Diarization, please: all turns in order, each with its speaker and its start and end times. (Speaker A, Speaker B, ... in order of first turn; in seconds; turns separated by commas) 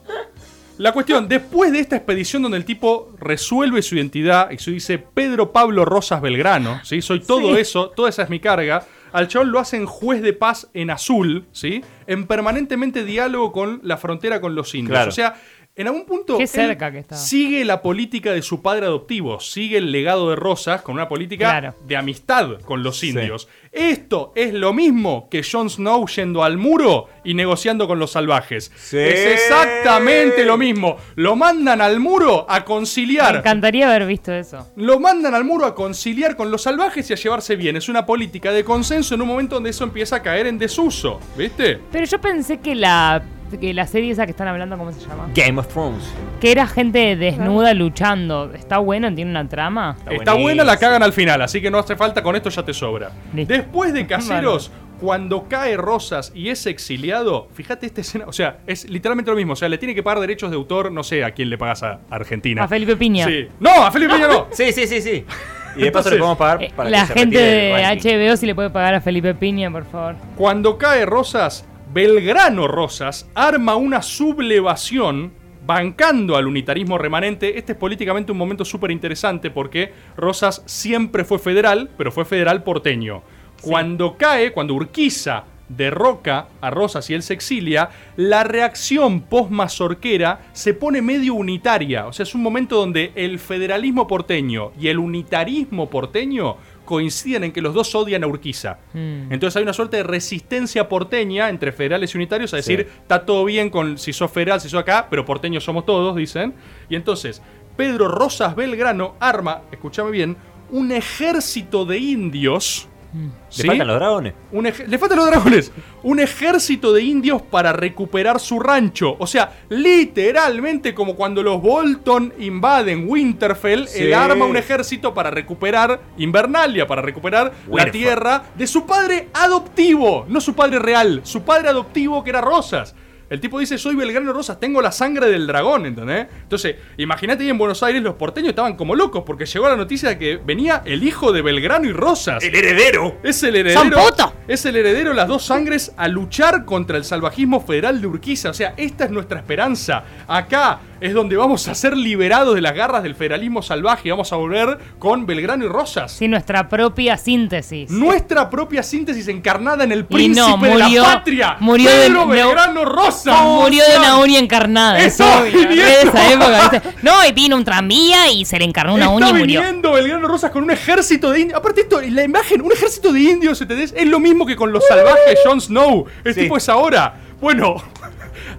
Speaker A: 0.8-33.5, Speaker B: 7.3-7.6, Speaker C: 14.8-15.2, Speaker B: 16.4-17.3, Speaker B: 21.4-21.7, Speaker C: 23.0-23.3, Speaker C: 28.8-30.6, Speaker B: 33.2-34.7, Speaker A: 34.8-41.8, Speaker B: 41.9-45.3, Speaker C: 45.3-46.2, Speaker B: 46.4-50.0, Speaker C: 50.0-51.0, Speaker A: 50.1-64.5, Speaker B: 54.1-54.6, Speaker B: 62.6-63.3, Speaker C: 64.5-68.0, Speaker A: 65.8-66.3, Speaker B: 66.6-70.2, Speaker A: 70.3-112.9, Speaker B: 83.6-83.9, Speaker B: 98.9-99.3, Speaker C: 102.6-102.8, Speaker A: 113.5-113.9, Speaker C: 113.5-114.3, Speaker A: 114.5-142.5, Speaker C: 123.9-124.6, Speaker C: 127.7-128.2, Speaker C: 142.4-143.2, Speaker A: 143.2-156.2, Speaker B: 143.7-144.3, Speaker B: 156.2-158.1, Speaker A: 157.9-164.2, Speaker B: 160.1-162.6, Speaker B: 163.3-169.7, Speaker A: 164.9-166.8, Speaker A: 168.9-177.8